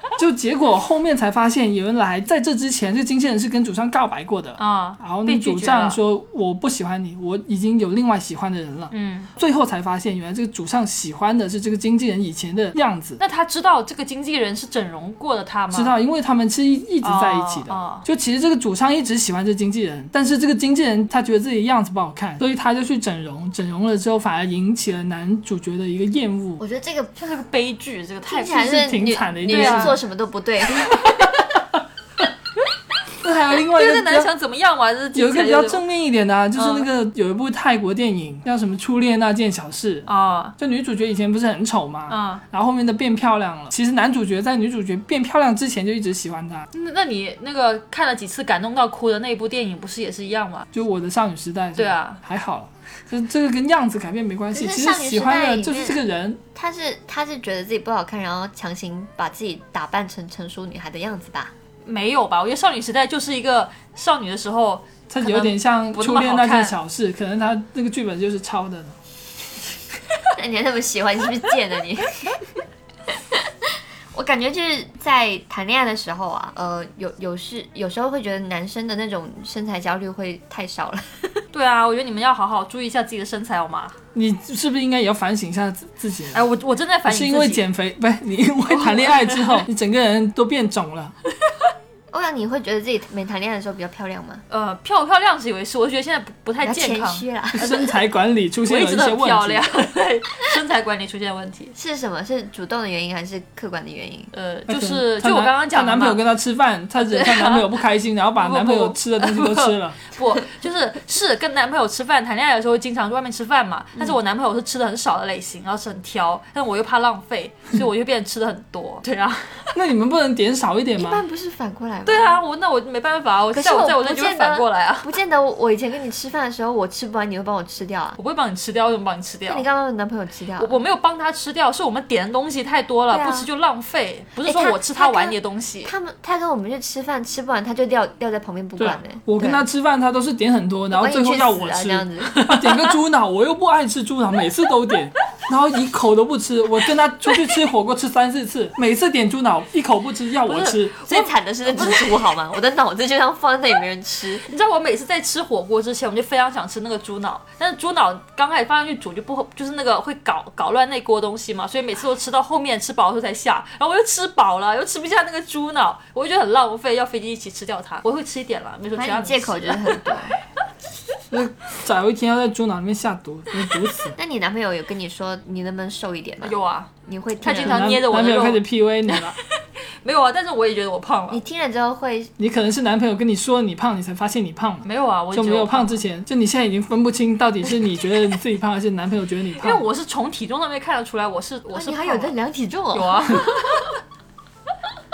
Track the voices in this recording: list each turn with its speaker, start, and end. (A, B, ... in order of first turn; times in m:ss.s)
0:00.2-0:13.2 A
0:04.6-0:06.0 B
0:08.9-0:09.3 B
0:13.2-0:15.9 B
0:15.7-0:26.6 A
0:17.0-0:18.1 B
0:26.6-0:27.1 C
0:27.2-0:28.8 B
0:28.3-0:31.0 C
0:28.5-0:30.0 A
0:29.4-0:30.0 B
0:30.8-0:31.8 A
0:33.2-0:34.3 A
0:33.7-0:35.8 B
0:35.1-0:46.7 A
0:36.6-0:36.9 B
0:40.1-0:40.6 B
0:42.1-0:42.4 B
0:46.7-0:50.7 B
0:50.7-0:56.4 A
0:51.8-0:52.2 B
0:54.5-0:56.0 C
0:56.5-1:01.5 C
1:01.8-1:06.8 B
1:05.1-1:09.0 A
1:10.3-1:12.4 C
1:13.1-1:13.5 C
1:14.1-1:21.4 C
1:21.5-1:24.0 B
1:24.1-1:26.4 A
1:26.3-1:27.6 B
1:27.1-1:31.2 A
1:28.8-1:29.6 B
1:32.1-1:34.4 C
1:34.5-1:37.9 B
1:36.6-1:37.6 C
1:37.6-1:39.8 A
1:38.6-1:41.7 B
1:41.8-1:44.3 C
1:44.3-1:46.2 B
1:44.7-1:50.0 A
1:47.0-1:47.7 B
1:48.4-1:59.7 B
1:59.8-2:01.2 A
2:01.0-2:02.4 C
2:02.1-2:05.1 B
2:03.5-2:08.2 C
2:08.2-2:09.7 B
2:09.5-2:10.7 C
2:10.6-2:15.9 B
2:13.1-2:13.5 C
2:14.4-2:19.6 C
2:18.8-2:30.9 A
2:20.9-2:22.5 C
2:30.5-2:32.4 B
2:31.0-2:34.4 C
2:34.4-2:50.2 B
2:49.0-2:50.4 C
2:51.3-2:54.2 A
2:54.2-2:57.9 C
2:56.4-3:01.4 B
2:57.6-2:59.4 A
3:01.3-3:02.3 C
3:02.4-3:09.8 A
3:04.8-3:06.0 B
3:09.6-3:12.4 B
3:11.7-3:13.8 C
3:12.9-3:13.9 B